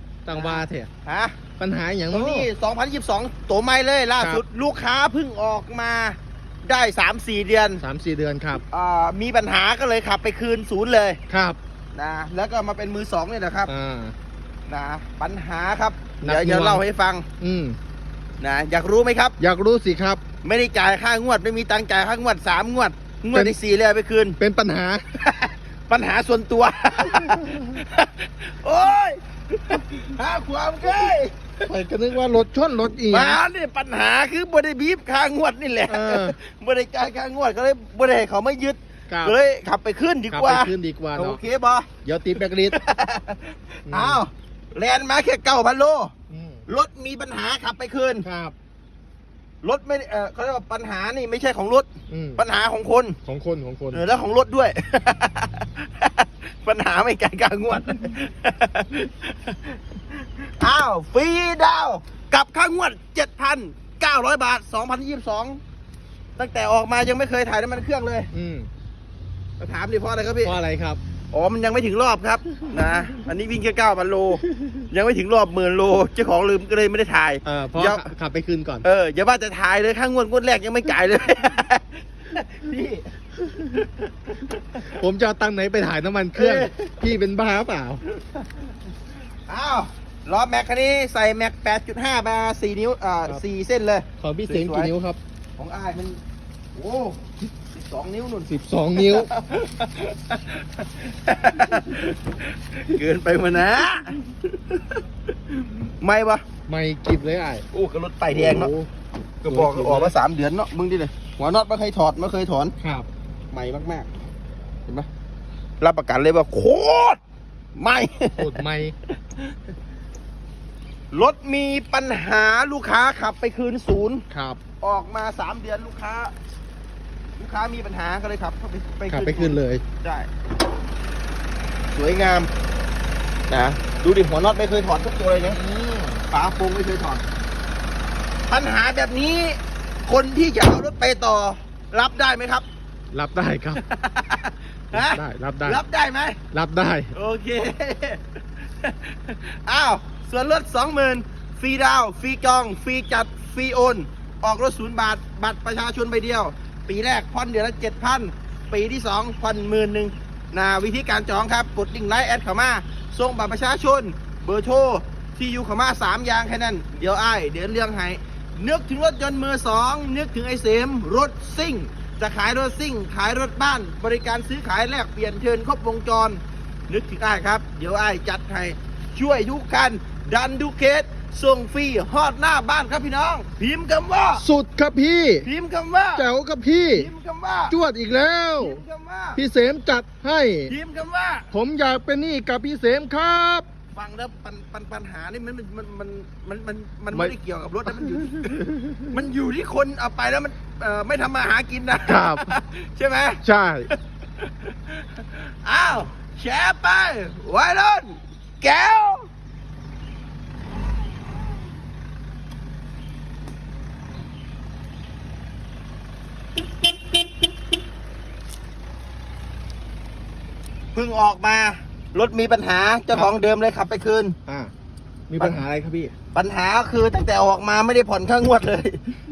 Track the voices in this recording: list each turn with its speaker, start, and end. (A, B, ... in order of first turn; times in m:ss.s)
0:00.2-0:00.9 A
0:00.3-0:01.4 B
0:01.6-0:02.5 A
0:02.1-0:07.8 B
0:07.8-0:08.6 A
0:08.7-0:11.2 B
0:11.3-0:11.6 A
0:11.9-0:13.7 B
0:13.7-0:14.2 A
0:14.7-0:17.3 B
0:16.2-0:16.8 A
0:17.4-0:17.8 A
0:18.4-0:19.4 B
0:19.4-0:20.2 A
0:20.4-0:24.4 B
0:24.4-0:25.0 A
0:25.2-0:31.7 B
0:27.3-0:27.6 A
0:31.7-0:33.4 A
0:33.1-0:46.1 B
0:35.9-0:36.4 A
0:39.1-0:39.4 A
0:40.3-0:41.4 A
0:42.0-0:42.8 A
0:43.9-0:44.2 A
0:46.3-0:46.6 A
0:46.7-0:48.3 B
0:48.2-0:48.5 A
0:49.6-0:53.2 B
0:52.1-0:52.4 A
0:53.2-0:54.0 A
0:53.9-1:05.6 B
1:06.4-1:08.3 B
1:08.3-1:08.7 A
1:09.6-1:10.6 B
1:10.4-1:11.0 A
1:11.3-1:18.1 B
1:17.4-1:18.8 A
1:18.8-1:24.9 B
1:24.8-1:28.0 A
1:26.4-1:27.1 B
1:28.0-1:28.7 B
1:29.5-1:34.9 B
1:34.2-1:35.2 A
1:35.6-1:36.2 B
1:36.8-1:46.4 B
1:38.5-1:39.3 A
1:46.7-1:47.6 A
1:47.7-1:48.7 B
1:48.3-1:48.9 A
1:49.4-1:52.8 B
1:49.4-1:50.1 A
1:52.8-1:53.1 A
1:53.5-1:54.1 B
1:55.8-1:57.2 B
1:57.8-1:59.5 B
1:58.4-1:58.9 A
2:01.1-2:04.3 B
2:04.3-2:04.6 A
2:04.8-2:06.3 B
2:07.4-2:10.3 B
2:09.1-2:09.8 A
2:11.9-2:12.5 B
2:13.5-2:15.6 B
2:15.5-2:16.3 A
2:16.3-2:17.2 B
2:18.5-2:22.7 B
2:23.1-2:23.8 A
2:23.8-2:26.4 B
2:24.9-2:25.8 A
2:26.5-2:27.1 A
2:27.1-3:04.4 B
3:04.4-3:05.5 A
3:05.4-3:06.2 B
3:06.2-3:07.1 A
3:07.0-3:07.8 B
3:07.7-3:08.8 A
3:08.6-3:09.4 B
3:09.4-3:10.7 A
3:10.7-3:11.5 B
3:11.5-3:13.7 A
3:13.9-3:29.3 B
3:17.8-3:19.2 A
3:22.0-3:22.6 A
3:23.4-3:23.9 A
3:40.9-3:44.4 B
3:44.5-3:44.7 A
3:45.3-3:46.1 A
3:46.3-3:49.1 B